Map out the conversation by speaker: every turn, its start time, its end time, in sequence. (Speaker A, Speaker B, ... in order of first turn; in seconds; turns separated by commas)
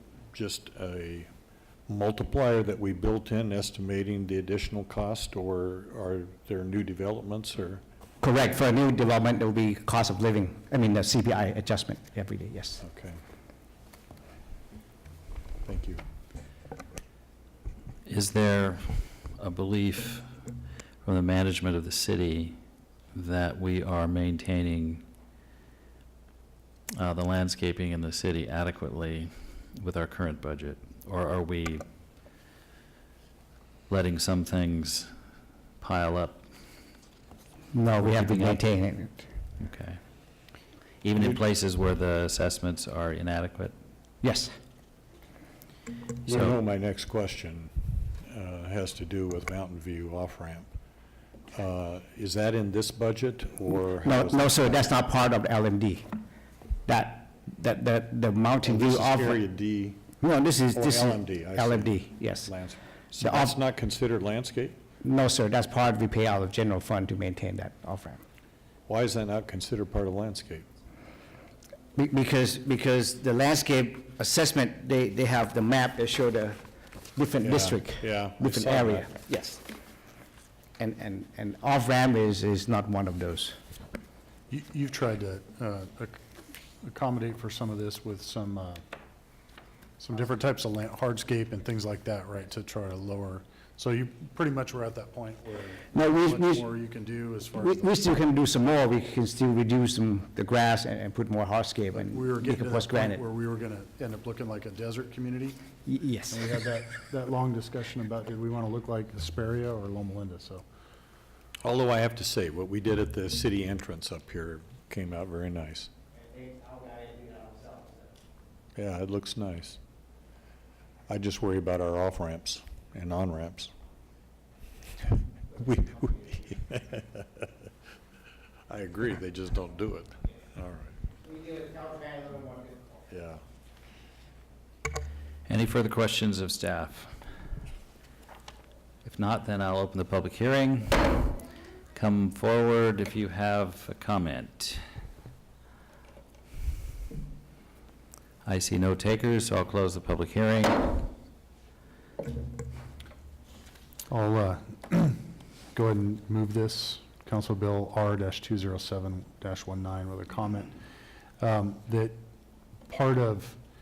Speaker A: 0.3-1.3, Speaker A: 1.9-7.8, Speaker B: 8.2-12.8, Speaker A: 12.8-13.2, Speaker A: 15.7-16.0, Speaker C: 18.1-20.3, Speaker C: 21.1-22.6, Speaker C: 23.1-25.0, Speaker C: 27.0-31.8, Speaker C: 33.9-35.1, Speaker C: 35.8-36.4, Speaker B: 37.7-39.2, Speaker C: 38.0-38.6, Speaker C: 39.6-40.0, Speaker C: 41.0-43.8, Speaker B: 44.2-44.5, Speaker A: 46.2-50.7, Speaker C: 46.3-46.5, Speaker A: 51.5-55.0, Speaker B: 54.0-56.1, Speaker B: 56.9-59.4, Speaker A: 58.6-60.1, Speaker B: 60.2-62.5, Speaker A: 60.7-64.8, Speaker B: 63.2-63.6, Speaker B: 65.0-68.2, Speaker A: 68.9-70.7, Speaker B: 72.0-76.6, Speaker B: 77.2-79.6, Speaker A: 77.4-79.1, Speaker B: 80.8-83.6, Speaker D: 84.5-86.2, Speaker D: 86.8-88.8, Speaker D: 90.0-98.0, Speaker B: 95.9-96.7, Speaker B: 97.6-103.2, Speaker D: 101.9-105.6, Speaker B: 105.9-106.5, Speaker D: 106.3-110.6, Speaker A: 111.6-115.9, Speaker B: 116.2-118.1, Speaker A: 118.8-119.8, Speaker A: 121.1-123.7, Speaker A: 125.5-127.4, Speaker A: 128.7-130.9, Speaker B: 131.2-133.0, Speaker A: 133.1-133.4, Speaker C: 135.5-137.2, Speaker C: 139.1-141.3, Speaker C: 141.9-144.8, Speaker C: 148.4-150.9, Speaker D: 154.1-155.2, Speaker D: 155.7-160.8, Speaker D: 161.4-162.2, Speaker D: 162.9-163.6